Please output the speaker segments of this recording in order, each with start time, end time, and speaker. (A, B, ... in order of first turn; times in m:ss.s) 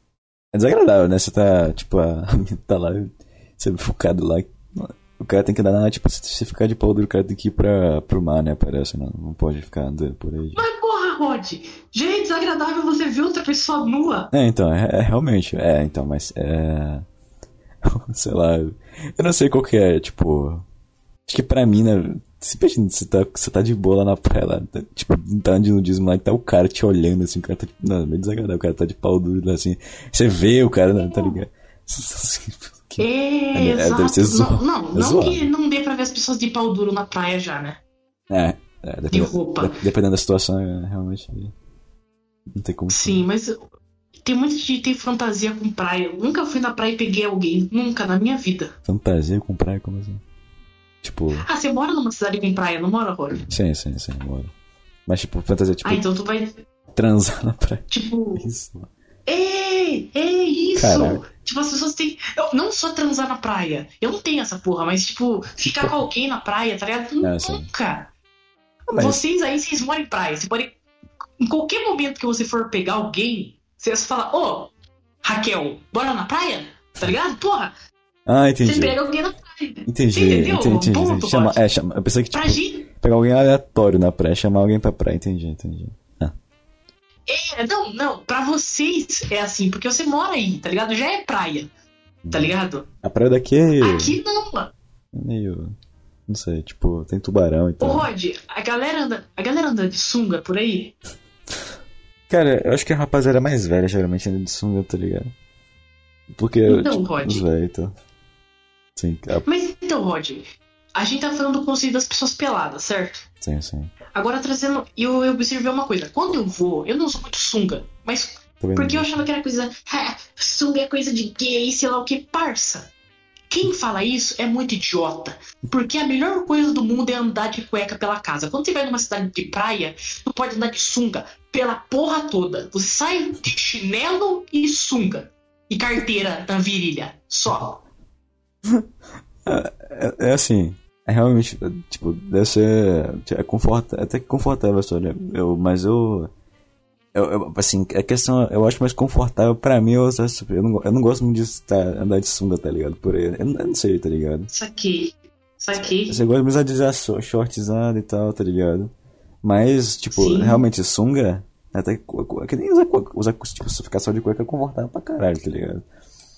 0:00.5-0:10.6 A
0:10.6-0:14.3 B
0:14.3-0:17.1 A
0:17.8-0:20.7 A
0:21.3-0:35.5 A
0:31.0-0:31.4 B
0:33.0-0:37.8 B
0:38.3-0:41.5 A
0:39.1-0:39.8 B
0:42.5-0:43.2 A
0:42.9-0:43.6 B
0:44.2-0:48.7 B
0:48.8-0:50.2 A
0:51.0-0:51.5 A
0:51.4-0:53.4 B
0:53.5-0:54.5 A
0:55.1-0:56.0 A
0:55.8-0:56.6 B
0:57.0-0:58.9 A
0:57.9-0:58.5 B
0:59.2-1:08.1 B
1:00.8-1:01.2 A
1:05.6-1:06.0 A
1:07.2-1:07.7 A
1:08.9-1:09.2 A
1:09.0-1:10.8 B
1:11.4-1:14.7 B
1:15.2-1:17.7 B
1:18.2-1:19.0 A
1:18.6-1:21.6 B
1:19.9-1:26.3 A
1:22.3-1:22.9 B
1:27.3-1:31.7 B
1:32.2-1:34.2 A
1:32.3-1:32.9 B
1:33.8-1:34.7 B
1:35.1-1:35.8 A
1:36.3-1:38.1 A
1:37.8-1:41.0 B
1:42.3-1:45.3 A
1:46.3-1:47.9 A
1:46.7-1:47.5 B
1:49.0-1:49.4 A
1:49.4-1:53.2 B
1:53.4-1:53.9 A
1:54.1-2:02.9 B
1:58.6-1:59.2 A
2:03.5-2:17.8 B
2:19.4-2:26.3 A
2:27.1-2:34.5 A
2:34.5-2:36.2 B
2:35.8-2:45.8 A
2:40.1-2:40.6 B